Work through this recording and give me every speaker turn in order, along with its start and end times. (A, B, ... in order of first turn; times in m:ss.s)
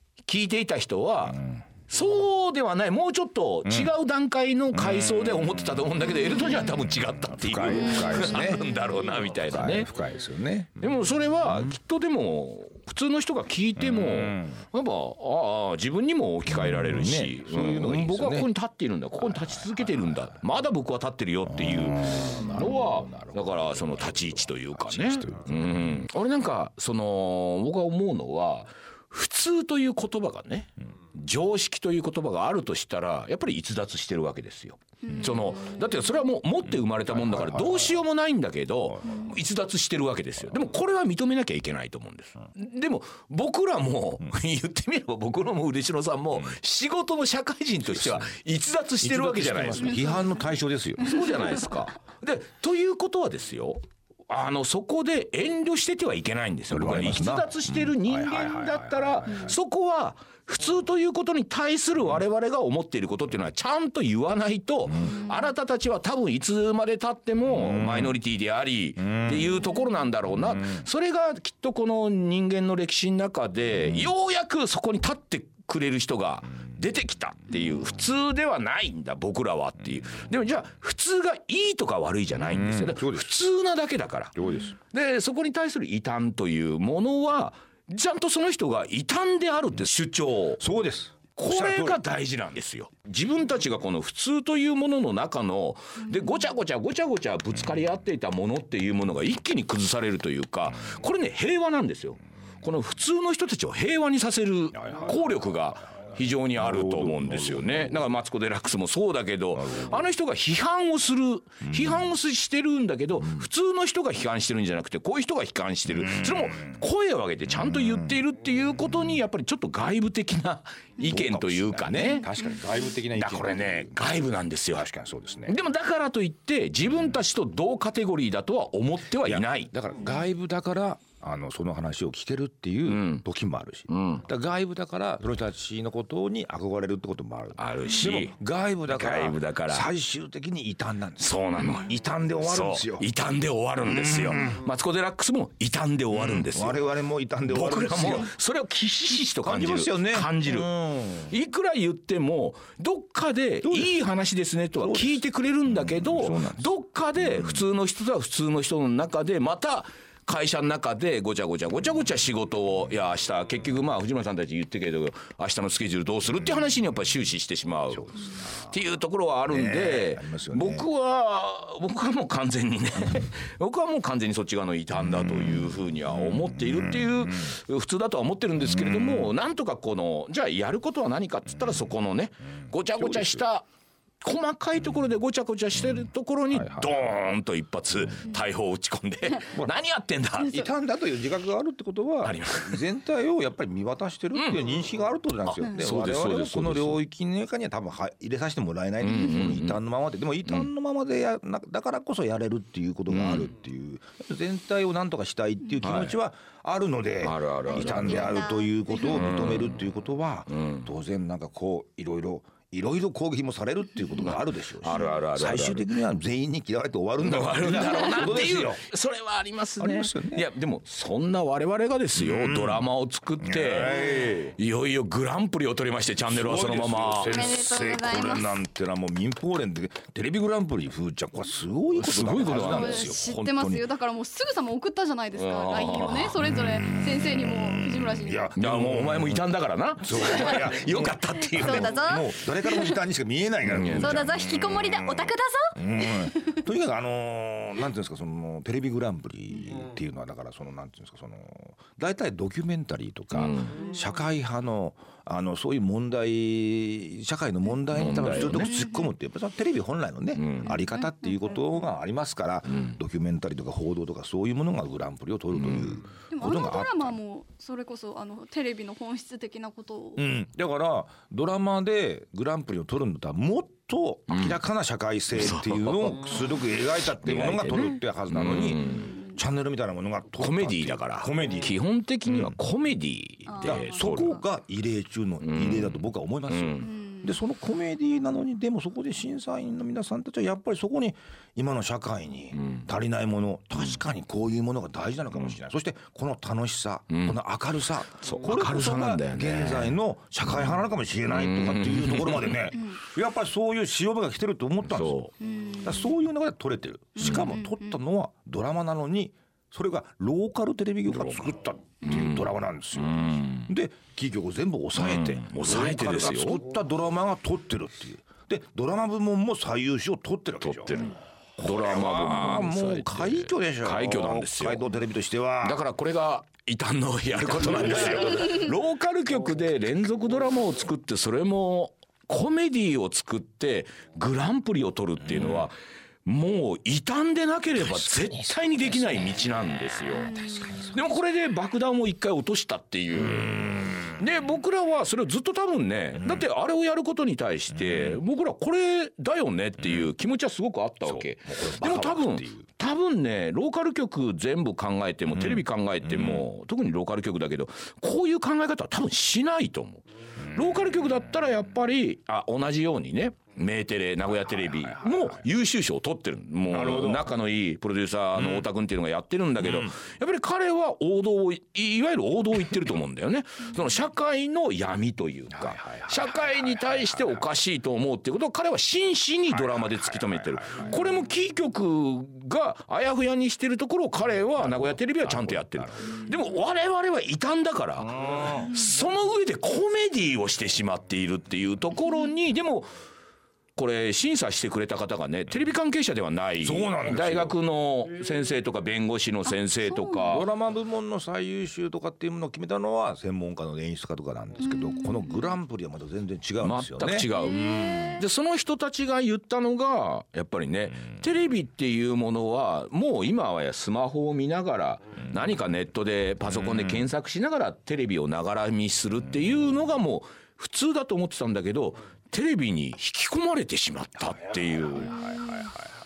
0:00.2-0:09.9 A
0:03.7-0:03.9 B
0:04.9-0:05.6 B
0:07.3-0:08.8 B
0:07.7-0:09.1 C
0:09.5-0:10.8 B
0:10.8-0:50.1 A
0:13.8-0:14.6 B
0:16.5-0:18.5 B
0:21.5-0:26.1 B
0:35.0-0:36.0 C
0:37.1-0:38.0 B
0:38.9-0:39.4 B
0:47.8-0:48.3 B
0:49.0-0:51.2 B
0:51.0-1:30.6 A
0:56.7-0:59.6 B
1:05.1-1:05.4 C
1:07.5-1:08.1 B
1:09.1-1:09.5 B
1:22.4-1:23.3 B
1:24.4-1:24.7 B
1:30.6-1:32.0 B
1:31.4-2:02.4 A
1:44.8-1:45.2 B
1:46.6-1:48.0 B
1:51.6-1:52.1 B
1:56.0-1:56.8 B
1:57.7-1:58.2 B
2:01.0-2:04.1 B
2:02.1-2:02.6 C
2:03.1-2:04.9 A
2:04.7-2:05.6 B
2:05.5-2:09.7 A
2:09.2-2:23.1 B
2:12.9-2:13.2 A
2:13.9-2:14.3 A
2:17.6-2:18.3 A
2:18.9-2:19.9 A
2:21.2-2:26.8 A
2:23.8-2:24.6 B
2:26.2-2:28.3 B
2:27.5-3:03.6 A
2:29.4-2:31.3 B
2:33.6-2:34.0 B
2:34.8-2:36.7 B
2:37.2-2:37.6 B
2:47.9-2:48.8 B
2:49.5-2:50.9 B
2:55.3-2:55.5 B
2:56.1-2:57.5 B
2:58.7-2:59.3 B
3:03.0-3:03.4 B
3:04.2-3:10.7 A
3:06.5-3:07.2 B
3:10.4-3:38.8 B
3:12.2-3:12.8 A
3:14.3-3:14.6 A
3:15.4-3:17.0 A
3:19.0-3:19.8 A
3:23.1-3:23.5 A
3:25.8-3:26.2 A
3:27.2-3:28.4 A
3:27.7-3:29.2 C
3:29.0-3:29.8 A
3:30.5-3:30.9 A
3:34.2-3:35.9 A
3:37.2-3:44.0 A
3:39.8-3:40.5 B
3:42.2-3:42.9 B
3:43.4-3:44.6 B
3:44.6-3:47.5 A
3:46.3-3:53.9 B
3:47.2-3:48.5 C
3:52.0-3:53.1 A
3:52.6-3:58.5 C
3:55.4-3:56.4 A
3:56.5-3:59.4 B
3:58.6-4:02.0 A
4:00.0-4:27.2 B
4:00.2-4:00.5 C
4:01.5-4:03.0 C
4:03.7-4:04.3 A
4:03.9-4:06.6 C
4:13.3-4:13.8 A
4:13.7-4:14.1 C
4:17.9-4:18.8 A
4:18.4-4:19.1 C
4:20.4-4:20.8 A
4:20.6-4:21.6 C
4:22.7-4:23.0 A
4:25.5-4:26.0 A
4:26.3-4:30.3 C
4:30.2-4:42.6 B
4:34.3-4:34.6 A
4:35.4-4:39.1 A
4:38.8-4:39.4 C
4:40.4-4:44.4 A
4:43.5-4:44.4 C
4:43.6-5:05.2 B
4:45.4-4:46.9 A
4:46.8-4:47.4 C
4:52.5-4:52.9 A
4:57.1-4:57.4 A
4:58.2-5:02.8 A
5:04.8-5:05.3 A
5:05.4-5:06.2 C
5:05.8-5:25.8 B
5:07.2-5:08.0 C
5:07.2-5:07.6 A
5:11.1-5:11.5 A
5:12.0-5:13.7 A
5:15.0-5:16.6 A
5:20.6-5:24.9 A
5:25.6-5:35.8 A
5:27.8-5:28.1 B
5:35.4-5:35.7 B
5:36.3-5:40.4 A
5:37.9-5:38.4 B
5:40.1-5:40.9 C
5:40.4-5:41.0 B
5:40.9-6:32.9 A
5:43.2-5:44.2 B
5:47.8-5:48.2 B
5:51.0-5:52.7 B
5:55.3-5:56.4 B
6:00.4-6:00.7 B
6:06.7-6:07.3 B
6:09.6-6:09.9 B
6:15.5-6:17.4 B
6:19.5-6:21.0 B
6:24.6-6:26.4 B
6:28.0-6:28.8 B
6:33.8-6:40.5 A
6:36.6-6:37.6 B
6:39.5-6:40.4 C
6:40.3-6:48.0 B
6:44.6-6:45.6 C
6:46.6-7:05.4 A
6:47.3-6:48.2 C
7:05.1-7:05.7 B
7:05.2-7:05.5 C